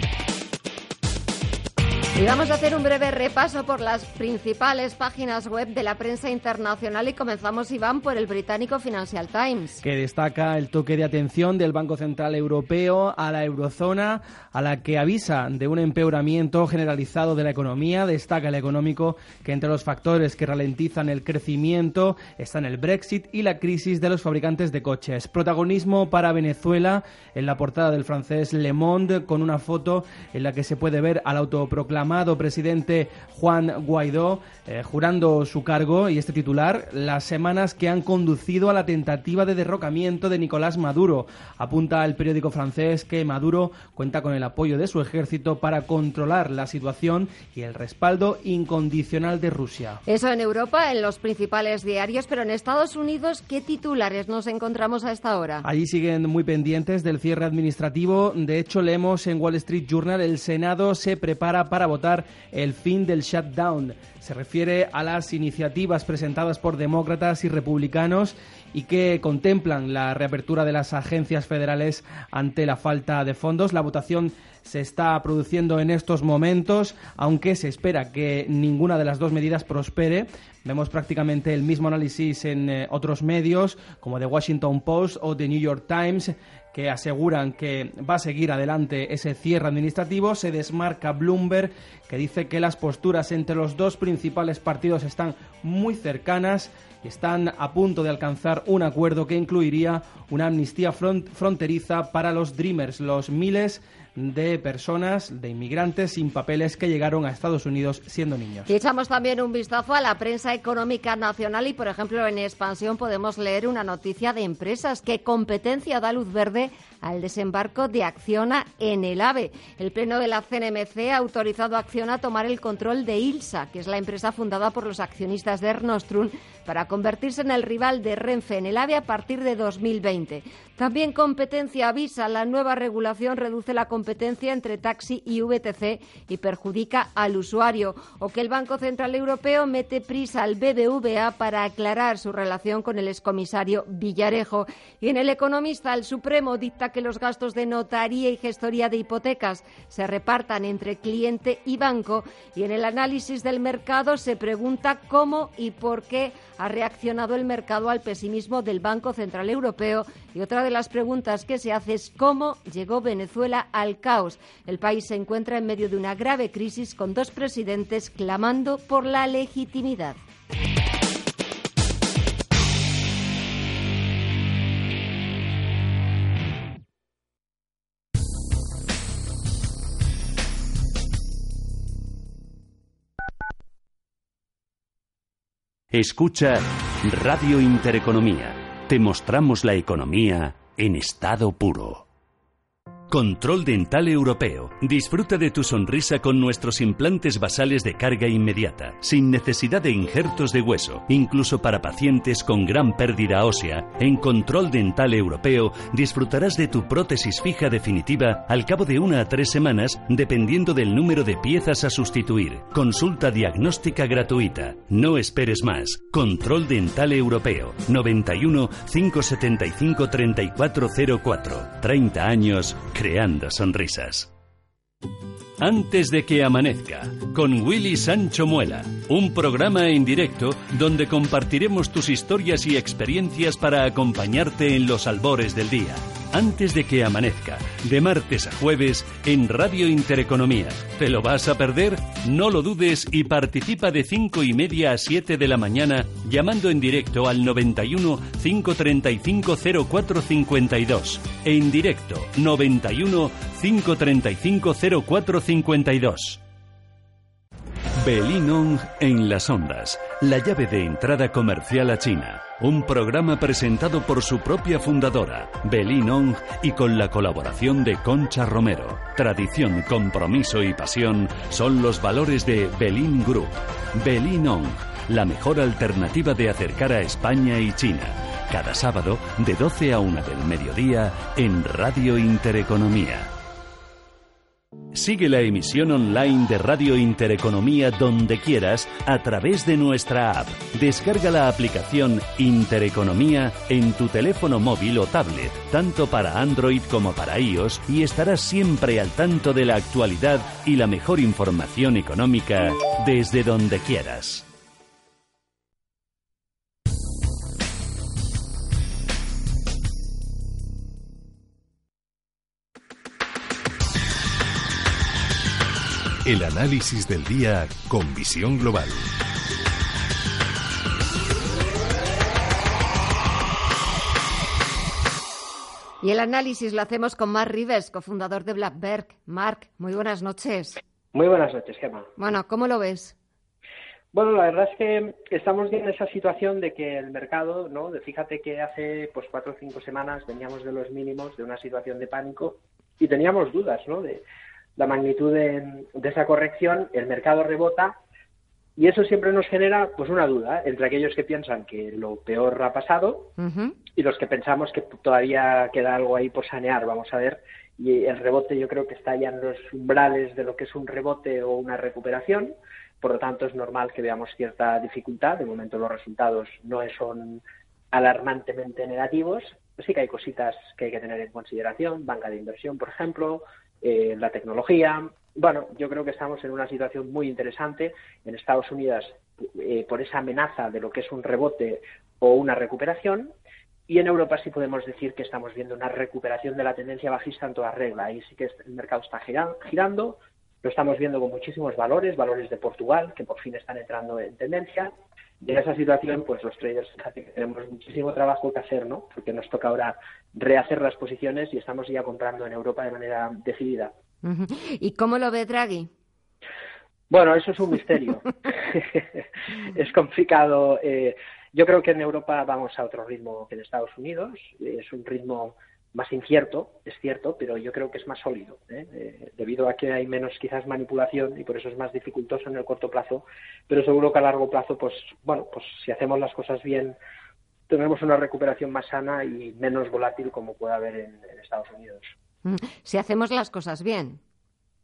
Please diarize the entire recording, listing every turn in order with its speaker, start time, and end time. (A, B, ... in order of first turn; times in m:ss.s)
0:02.2-0:09.8 A
0:09.8-0:50.0 B
0:50.1-0:55.7 A
0:55.6-1:48.7 B
1:48.7-2:50.2 A
3:05.9-3:12.0 C
3:13.1-3:44.3 C
3:45.6-4:16.4 C
4:18.0-4:43.3 C
4:44.9-5:04.4 C
5:16.2-5:19.0 D
5:26.0-5:30.8 A
5:31.1-5:32.1 E
5:32.2-5:33.2 A
5:34.1-5:44.2 E
5:44.8-5:48.0 E
5:48.8-5:53.3 E
5:53.4-5:53.7 A
5:54.0-6:07.4 E
6:07.9-6:23.3 E
6:23.9-6:43.9 E
6:44.2-6:45.9 A
6:47.1-7:07.0 E
7:07.7-7:12.1 E
7:12.4-7:14.2 A